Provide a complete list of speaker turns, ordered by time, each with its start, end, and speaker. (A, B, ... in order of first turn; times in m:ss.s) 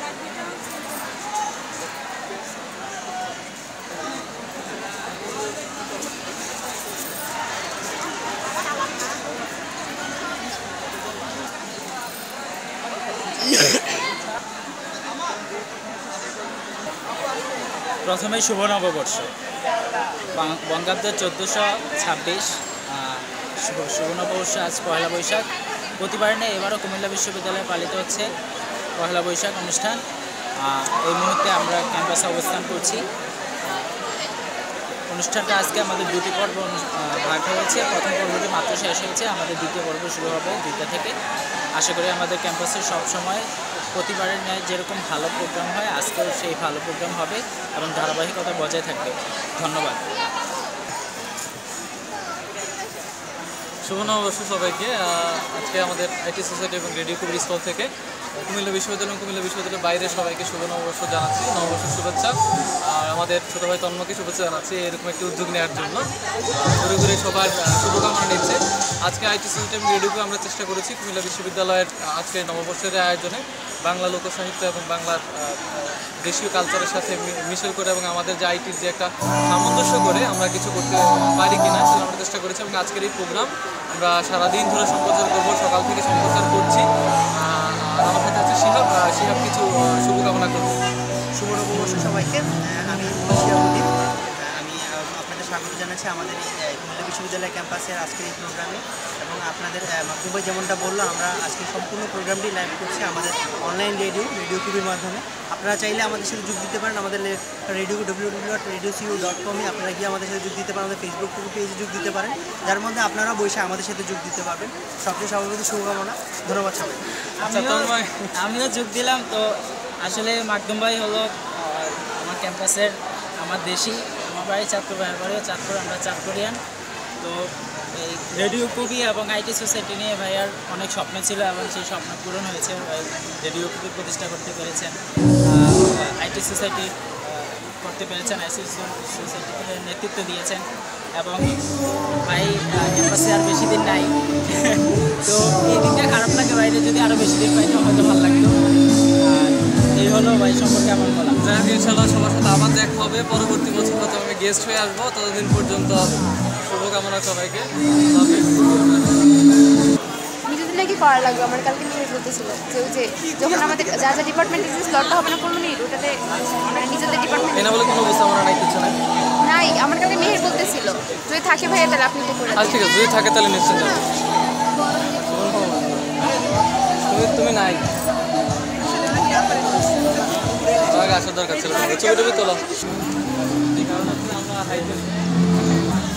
0:18.0-0:19.3 A
0:20.3-0:25.4 A
0:26.0-0:28.3 A
0:29.0-0:30.0 A
0:30.6-0:33.0 A
0:35.1-0:41.1 A
0:41.8-0:50.0 A
0:53.8-0:57.9 B
0:58.4-1:26.8 B
1:27.4-1:30.8 B
1:31.4-1:33.8 C
1:34.4-1:57.0 C
1:57.4-2:06.6 A
1:57.4-1:58.2 B
2:07.2-2:21.6 A
2:22.3-2:28.6 A
2:29.2-2:31.4 A
2:31.4-2:39.1 B
2:40.5-2:47.6 D
2:47.5-2:49.0 B
2:49.4-2:52.5 D
2:52.5-2:54.0 B
2:55.2-2:56.1 B
2:57.1-2:57.9 B
3:00.8-3:02.7 B
3:03.7-3:05.1 B